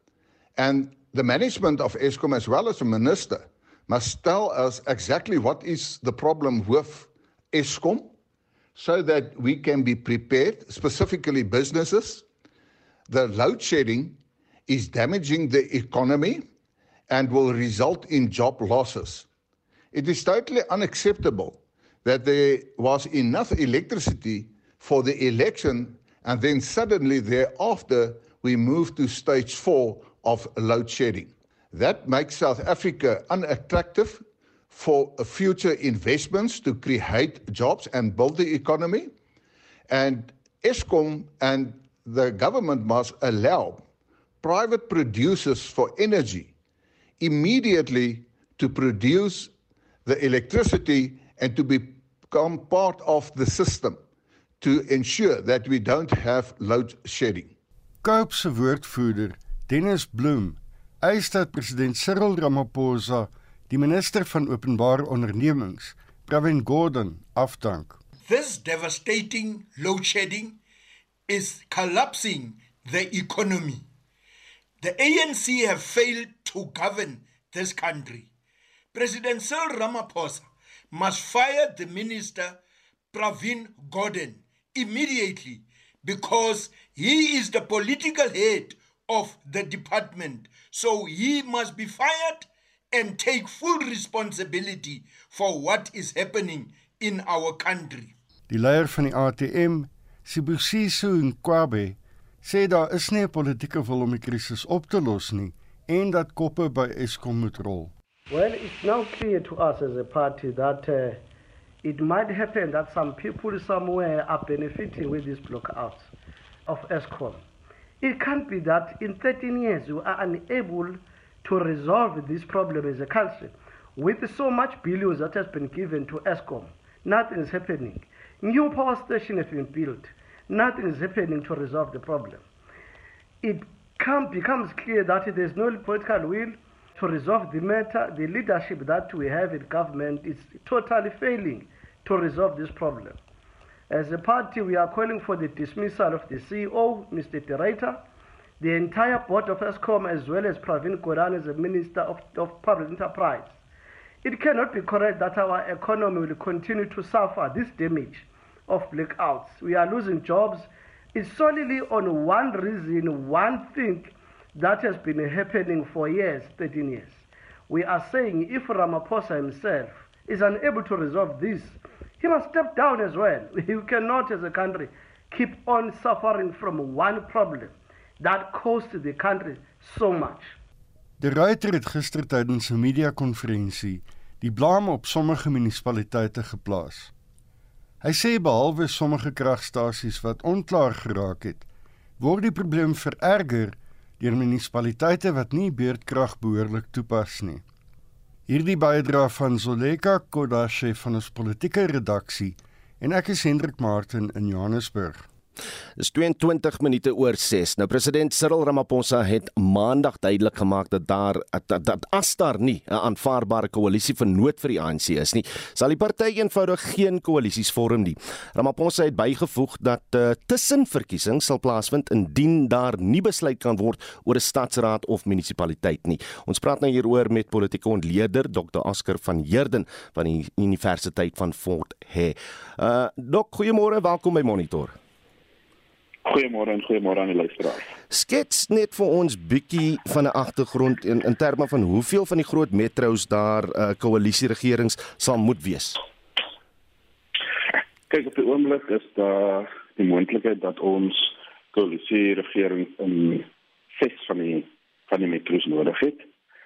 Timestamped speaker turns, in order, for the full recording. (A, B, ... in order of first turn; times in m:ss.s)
0:00.6-0:08.1 A
0:08.8-0:12.2 A
0:13.1-0:16.4 A
0:17.1-0:19.3 A
0:19.9-0:39.1 A
0:39.9-0:43.8 A
0:44.4-0:46.5 A
0:47.2-0:49.5 A
0:50.0-0:54.0 A
0:54.6-0:57.5 A
0:58.0-1:08.0 B
1:08.2-1:10.6 C
1:11.3-1:13.8 C
1:14.8-1:18.3 C
1:18.9-1:22.6 C
1:23.1-1:38.1 C
1:38.5-1:47.9 B
1:48.3-1:51.2 D
1:51.8-1:56.1 D
1:56.7-1:57.4 D
1:58.0-2:12.4 D
2:13.4-2:23.2 D
2:23.9-2:28.0 D
2:28.6-2:33.6 D
2:34.2-3:00.6 D
3:01.2-3:07.1 B
3:08.0-3:11.6 B
3:12.2-3:17.6 B
3:18.5-3:25.2 B
3:26.0-3:55.0 E
3:56.2-3:57.8 F
3:58.1-4:06.0 E
4:08.1-4:16.2 F